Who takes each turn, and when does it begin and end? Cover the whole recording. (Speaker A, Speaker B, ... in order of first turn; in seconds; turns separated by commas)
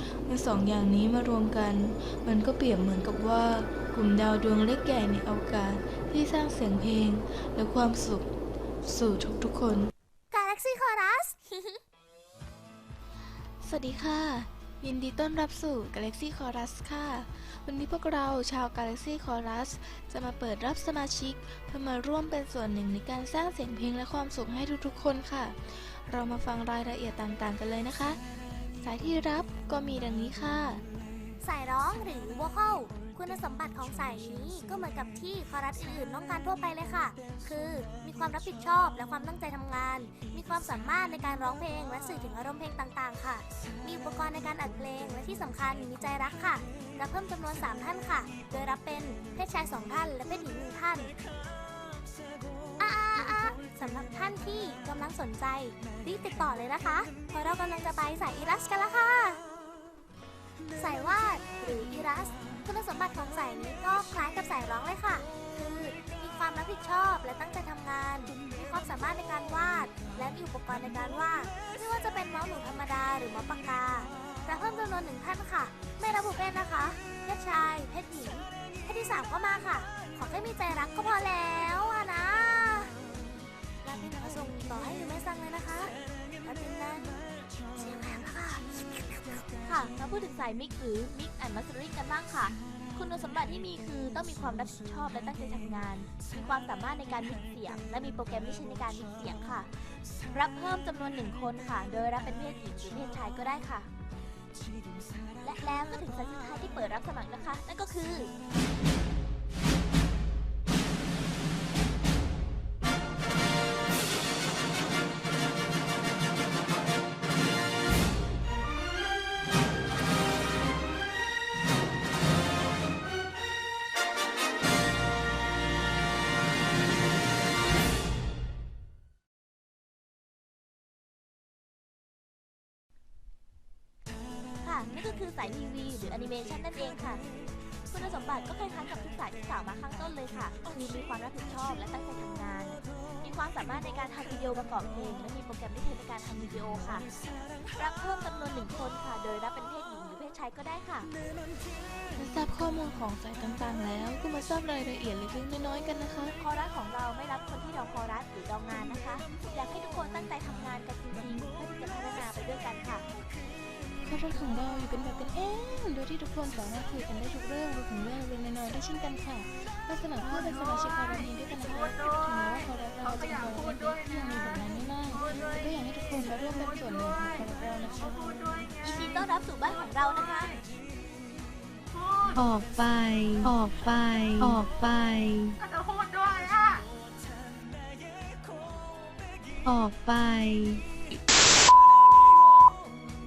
Speaker A: 0.3-8.3, Speaker A: 8.8-9.9, Speaker B: 10.3-11.8, Speaker A: 13.6-28.2, Speaker A: 28.8-30.8, Speaker B: 31.4-51.1, Speaker B: 52.8-59.4, Speaker B: 60.8-82.9, Speaker B: 83.8-87.1, Speaker B: 87.8-89.5, Speaker C: 89.6-99.7, Speaker C: 100.3-103.9, Speaker C: 105.4-108.3, Speaker C: 134.6-137.2, Speaker C: 137.9-147.1, Speaker C: 147.6-151.1, Speaker A: 152.2-156.4, Speaker C: 156.4-163.1, Speaker A: 164.0-178.7, Speaker C: 178.8-180.6, Speaker D: 182.3-185.6, Speaker D: 189.7-190.8